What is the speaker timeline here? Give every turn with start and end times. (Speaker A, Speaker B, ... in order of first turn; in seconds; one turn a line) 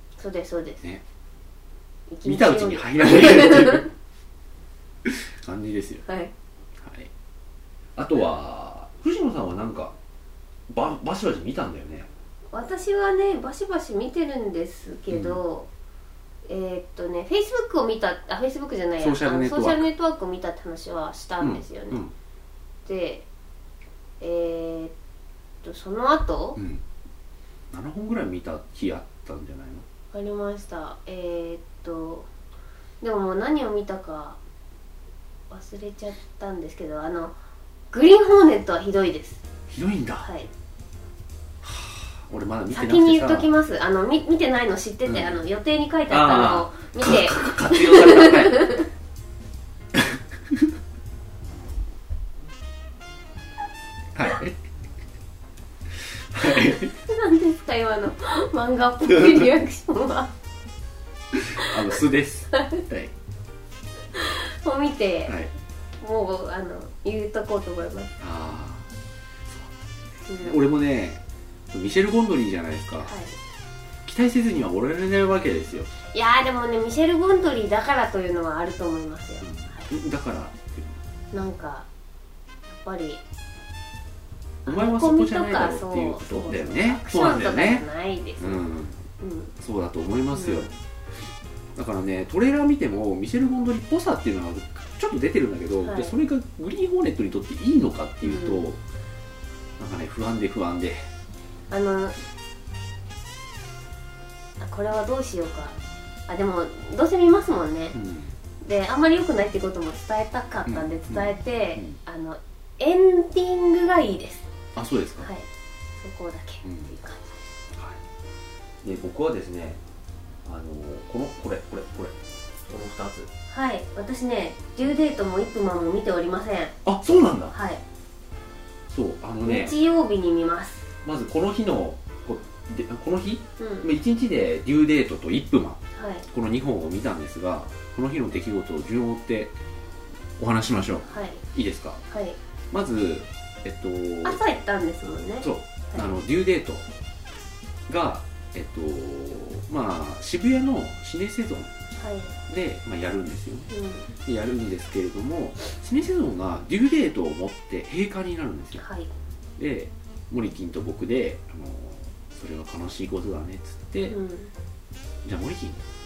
Speaker A: 0.2-0.8
Speaker A: 2.1-3.9
Speaker B: 2.2-3.9
Speaker B: 5.0-6.0
Speaker A: 6.0-6.3
Speaker B: 6.8-7.1
Speaker B: 8.0-9.9
Speaker B: 10.7-12.1
Speaker A: 12.5-15.7
Speaker B: 15.1-15.4
Speaker A: 16.4-22.0
Speaker B: 19.0-19.9
Speaker B: 21.4-22.1
Speaker A: 22.9-23.2
Speaker A: 24.2-24.9
Speaker A: 25.6-26.6
Speaker B: 26.6-26.8
Speaker B: 27.7-29.8
Speaker A: 30.1-32.3
Speaker A: 33.0-34.4
Speaker A: 35.5-37.3
Speaker A: 37.9-39.4
Speaker B: 39.7-40.3
Speaker A: 40.2-40.5
Speaker B: 41.6-43.5
Speaker A: 42.7-48.9
Speaker B: 45.0-45.4
Speaker B: 46.1-48.6
Speaker B: 49.9-50.7
Speaker B: 54.1-54.5
Speaker B: 56.1-56.9
Speaker A: 56.5-60.3
Speaker B: 59.1-59.4
Speaker B: 61.3-63.1
Speaker A: 61.6-61.9
Speaker A: 62.5-62.8
Speaker A: 64.1-65.4
Speaker B: 65.2-65.5
Speaker A: 66.0-68.1
Speaker B: 68.2-68.9
Speaker A: 70.3-70.6
Speaker B: 70.3-73.1
Speaker A: 73.0-73.3
Speaker B: 74.0-75.9
Speaker A: 76.1-79.8
Speaker B: 79.4-81.0
Speaker A: 81.3-81.9
Speaker A: 82.7-83.2
Speaker A: 84.6-88.6
Speaker B: 84.7-87.8
Speaker B: 88.4-89.0
Speaker A: 89.2-89.5
Speaker B: 89.6-90.7
Speaker A: 90.3-90.7
Speaker B: 91.8-98.8
Speaker A: 95.8-96.1
Speaker A: 98.2-98.7
Speaker B: 99.8-101.1
Speaker A: 101.7-102.2
Speaker A: 104.6-105.8
Speaker A: 106.3-108.0
Speaker B: 107.9-108.3
Speaker A: 108.6-114.5
Speaker B: 110.7-112.0
Speaker B: 114.8-115.3
Speaker A: 115.2-115.5
Speaker A: 116.0-117.3
Speaker B: 116.6-116.9
Speaker B: 117.7-118.0
Speaker B: 118.8-119.8
Speaker B: 120.4-123.3
Speaker A: 123.5-126.7
Speaker B: 126.8-127.5
Speaker A: 127.5-127.8
Speaker B: 128.9-129.7
Speaker A: 129.4-130.9
Speaker B: 131.0-139.5
Speaker A: 133.6-133.9
Speaker A: 135.9-136.3
Speaker B: 140.4-142.0
Speaker A: 141.0-141.4
Speaker A: 142.1-142.4
Speaker B: 142.7-144.4
Speaker A: 144.2-146.1
Speaker B: 145.4-146.8
Speaker B: 147.9-151.7
Speaker A: 152.0-152.3
Speaker B: 152.5-153.7
Speaker A: 153.7-154.1
Speaker B: 154.2-158.8
Speaker A: 158.8-159.1
Speaker B: 159.6-164.2
Speaker A: 164.1-164.5
Speaker B: 165.2-165.8